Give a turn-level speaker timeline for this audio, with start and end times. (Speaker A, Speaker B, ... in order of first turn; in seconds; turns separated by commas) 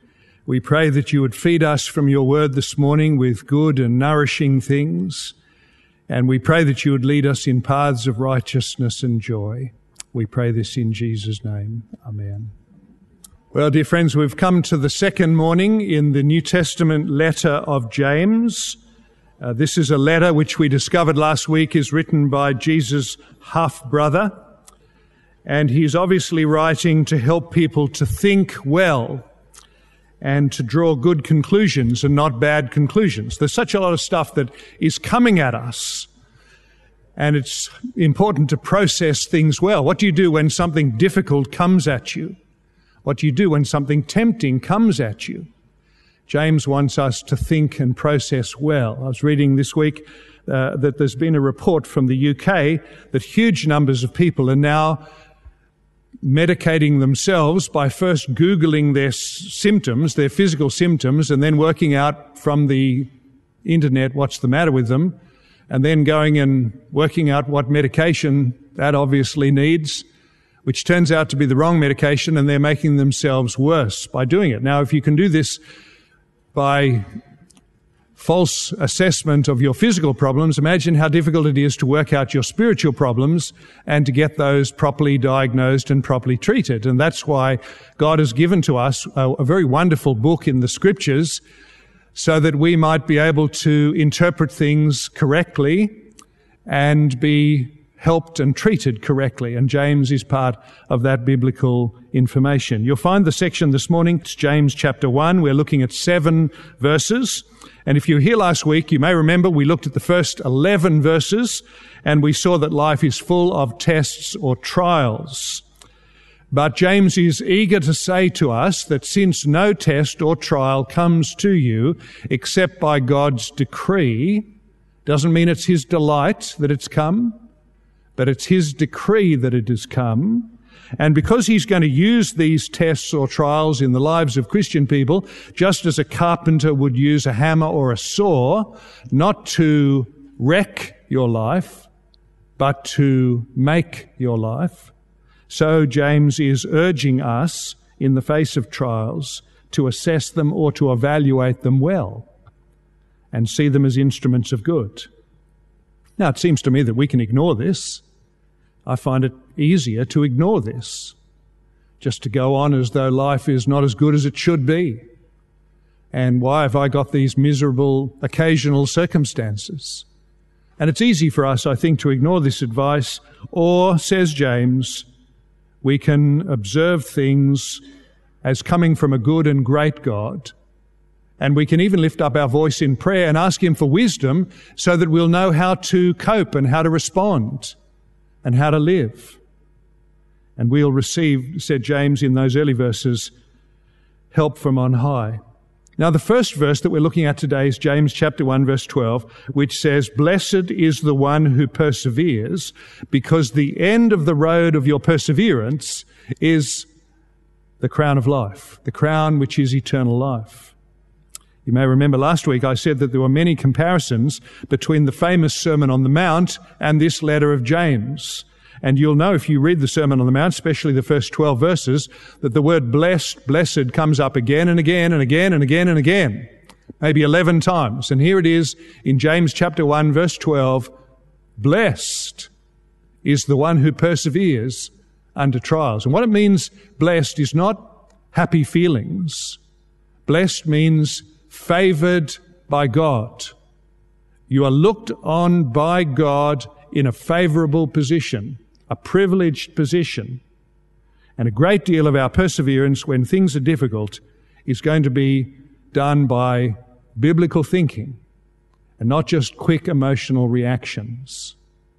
Speaker A: 0.5-5.3, Speaker A: 6.1-12.5, Speaker A: 13.5-18.8, Speaker A: 19.4-24.4, Speaker A: 25.4-29.3, Speaker A: 30.2-36.1, Speaker A: 37.2-42.4, Speaker A: 43.0-45.5, Speaker A: 46.3-55.0, Speaker A: 56.2-63.1, Speaker A: 63.6-65.2, Speaker A: 65.7-70.1, Speaker A: 70.7-75.6, Speaker A: 76.5-77.1, Speaker A: 78.2-91.4, Speaker A: 92.1-96.1, Speaker A: 96.7-115.7, Speaker A: 116.5-124.5, Speaker A: 125.0-127.4, Speaker A: 128.2-141.9, Speaker A: 142.6-144.9, Speaker A: 145.5-152.3, Speaker A: 153.3-155.1, Speaker A: 156.2-158.1, Speaker A: 158.8-161.2, Speaker A: 162.0-165.1, Speaker A: 166.1-170.1, Speaker A: 170.8-175.1, Speaker A: 175.8-177.8, Speaker A: 178.4-180.5, Speaker A: 181.4-187.8, Speaker A: 188.4-189.4, Speaker A: 190.6-193.3, Speaker A: 194.3-195.4, Speaker A: 196.0-206.9, Speaker A: 207.8-210.8, Speaker A: 211.7-226.5, Speaker A: 227.0-230.9, Speaker A: 231.6-232.5, Speaker A: 233.2-239.6, Speaker A: 240.3-243.6, Speaker A: 244.5-250.4, Speaker A: 251.4-258.2, Speaker A: 259.0-261.6